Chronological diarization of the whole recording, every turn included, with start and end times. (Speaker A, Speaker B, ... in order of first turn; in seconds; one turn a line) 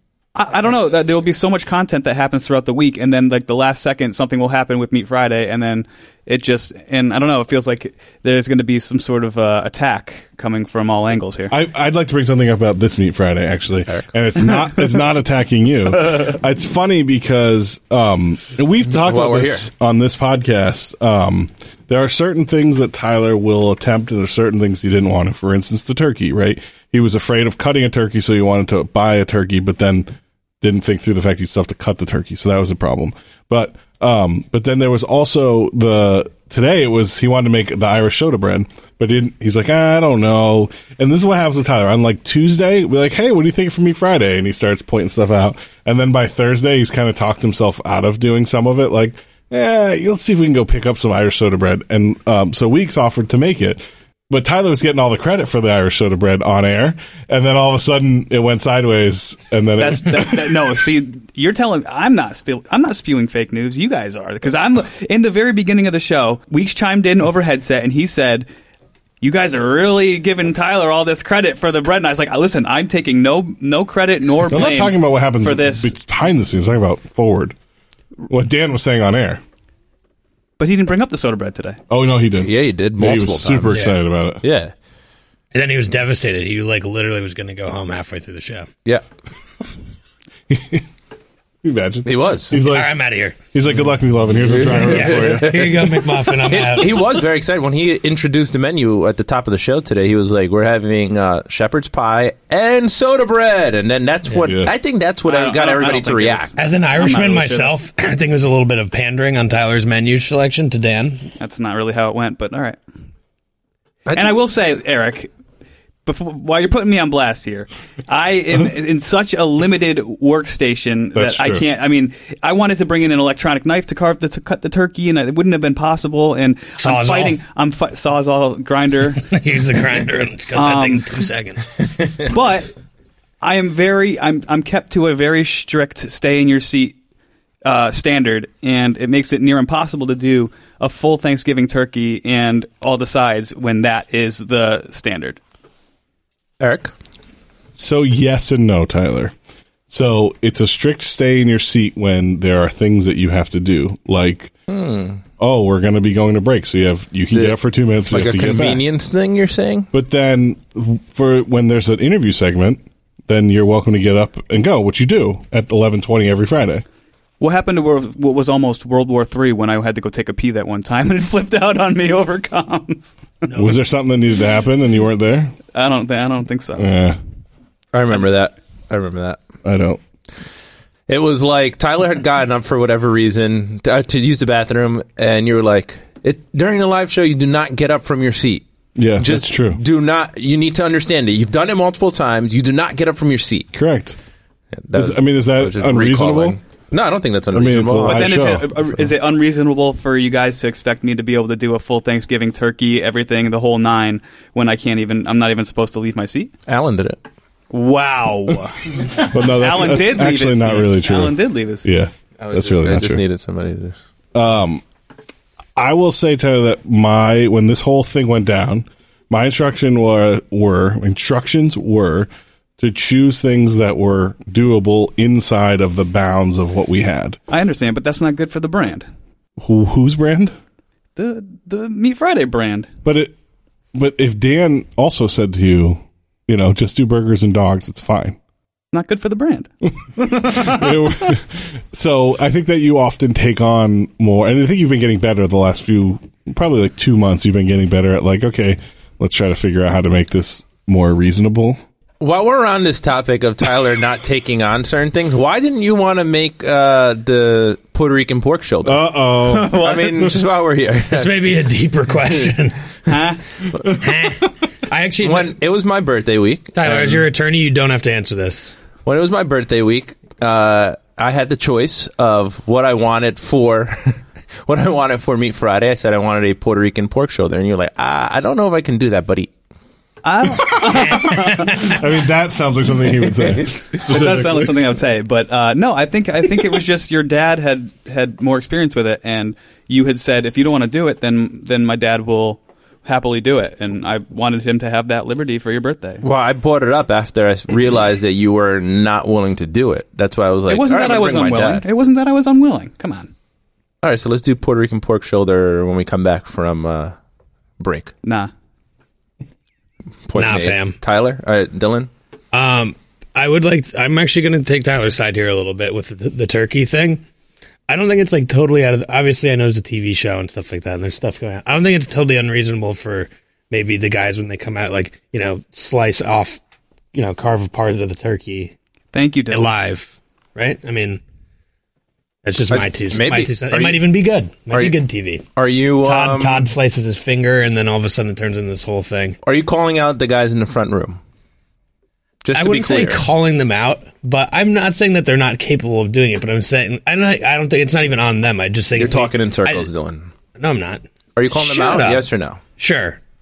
Speaker A: 0.4-11.5
Speaker B: 11.5-60.8
Speaker C: 18.9-19.7
Speaker A: 59.8-68.5
Speaker A: 69.2-75.9
Speaker B: 74.5-77.6
Speaker B: 78.3-79.4
Speaker A: 80.6-81.8
Speaker B: 81.9-84.4
Speaker C: 82.4-83.8
Speaker C: 84.4-84.7
Speaker D: 85.5-88.7
Speaker B: 90.5-90.8
Speaker B: 91.6-95.9
Speaker C: 92.0-92.6
Speaker D: 92.6-93.4
Speaker C: 94.5-106.5
Speaker D: 94.8-97.0
Speaker B: 104.4-104.7
Speaker A: 105.3-107.8
Speaker D: 106.6-111.3
Speaker A: 111.4-112.8
Speaker C: 114.1-114.4
Speaker A: 114.1-115.3
Speaker A: 116.0-129.3
Speaker B: 121.2-121.6
Speaker D: 126.8-127.4
Speaker D: 129.2-131.7
Speaker A: 130.5-131.1
Speaker A: 132.3-132.7
Speaker A: 133.4-137.0
Speaker A: 137.6-145.4
Speaker C: 146.6-146.9
Speaker B: 147.7-149.3
Speaker B: 149.9-154.5
Speaker C: 154.7-155.2
Speaker B: 155.4-158.8
Speaker C: 157.3-159.9
Speaker B: 159.9-166.8
Speaker A: 167.4-173.5
Speaker B: 173.5-175.6
Speaker A: 175.7-176.9
Speaker B: 176.8-177.2
Speaker C: 177.9-179.4
Speaker B: 179.7-180.0
Speaker C: 181.1-188.6
Speaker B: 189.0-189.8
Speaker C: 189.2-193.7
Speaker B: 193.7-194.2
Speaker C: 194.8-198.4
Speaker B: 194.9-196.6
Speaker B: 197.5-198.7
Speaker A: 198.0-206.5
Speaker C: 206.7-207.2
Speaker A: 207.7-211.9
Speaker B: 209.2-213.2
Speaker C: 212.4-214.0
Speaker B: 214.3-214.8
Speaker B: 215.8-227.4
Speaker A: 227.5-229.1
Speaker B: 229.6-230.6
Speaker A: 231.2-232.9
Speaker B: 233.1-233.3
Speaker B: 233.9-238.4
Speaker A: 238.9-241.1
Speaker B: 240.3-251.8
Speaker C: 252.2-259.1
Speaker B: 258.8-259.9
Speaker A: 259.5-260.2
Speaker C: 259.7-261.5
Speaker D: 261.1-262.8
Speaker A: 263.1-263.4
Speaker D: 263.9-265.6
Speaker C: 265.2-267.2
Speaker D: 266.8-268.7
Speaker C: 269.1-279.5
Speaker A: 280.2-282.0
Speaker B: 280.7-284.8
Speaker D: 281.0-281.8
Speaker A: 284.0-296.2
Speaker C: 296.2-301.9
Speaker A: 300.7-303.3
Speaker C: 304.0-307.1
Speaker C: 307.8-308.1
Speaker A: 308.2-308.5
Speaker C: 310.3-312.1
Speaker D: 310.3-311.0
Speaker D: 312.5-317.2
Speaker D: 317.9-326.6
Speaker D: 327.1-328.7
Speaker A: 329.1-329.7
Speaker D: 329.5-331.2
Speaker D: 332.4-335.4
Speaker C: 332.7-334.1
Speaker C: 334.7-335.0
Speaker C: 335.6-336.7
Speaker D: 336.0-339.4
Speaker C: 339.4-341.2
Speaker C: 342.4-343.2
Speaker D: 342.5-349.9
Speaker C: 349.0-350.3
Speaker D: 350.6-352.3
Speaker C: 351.4-352.6
Speaker D: 352.8-353.2